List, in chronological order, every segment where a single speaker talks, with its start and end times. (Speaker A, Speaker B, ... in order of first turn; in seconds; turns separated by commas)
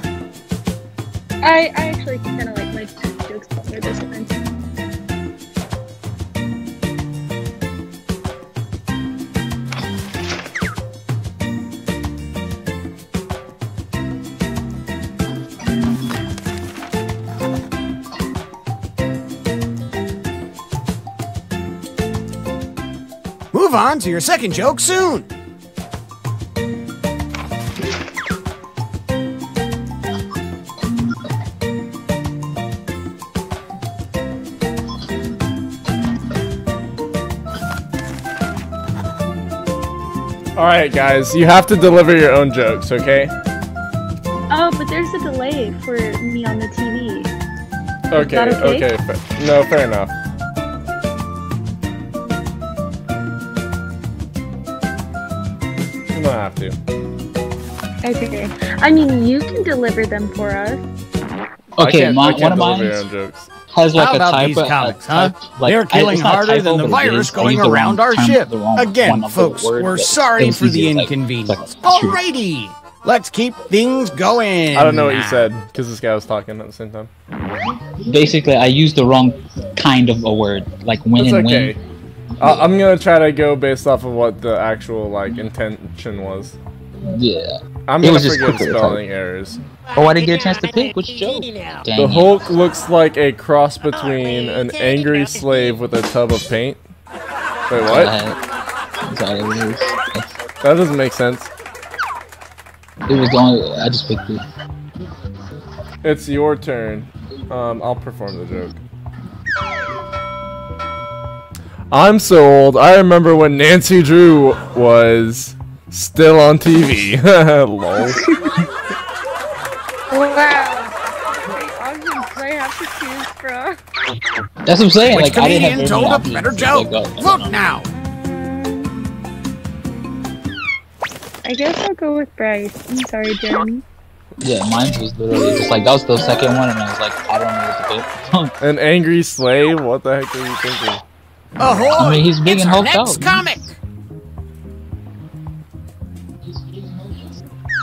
Speaker A: 1.4-4.4, Speaker B: 23.5-25.3, Speaker C: 40.5-43.3, Speaker A: 44.5-47.3, Speaker C: 48.1-50.1, Speaker A: 48.1-48.9, Speaker C: 56.1-56.8, Speaker A: 58.0-60.8, Speaker D: 61.8-63.0, Speaker C: 61.8-63.5, Speaker D: 63.7-72.2, Speaker B: 63.9-75.5, Speaker C: 74.7-77.1, Speaker D: 78.0-81.8, Speaker C: 81.2-81.8, Speaker C: 82.4-86.6, Speaker D: 87.1-89.0, Speaker C: 87.9-89.6, Speaker D: 89.9-92.4, Speaker C: 92.0-96.8, Speaker C: 97.7-98.1, Speaker D: 97.7-98.4, Speaker D: 99.0-100.3, Speaker C: 100.6-101.5, Speaker D: 103.1-104.4, Speaker C: 106.0-108.8, Speaker C: 111.9-118.2, Speaker A: 118.0-118.3, Speaker A: 120.1-123.8, Speaker D: 124.7-127.6, Speaker B: 125.0-127.9, Speaker A: 131.4-133.8, Speaker D: 134.4-138.5, Speaker C: 138.6-141.0, Speaker B: 141.6-143.8, Speaker D: 142.0-143.4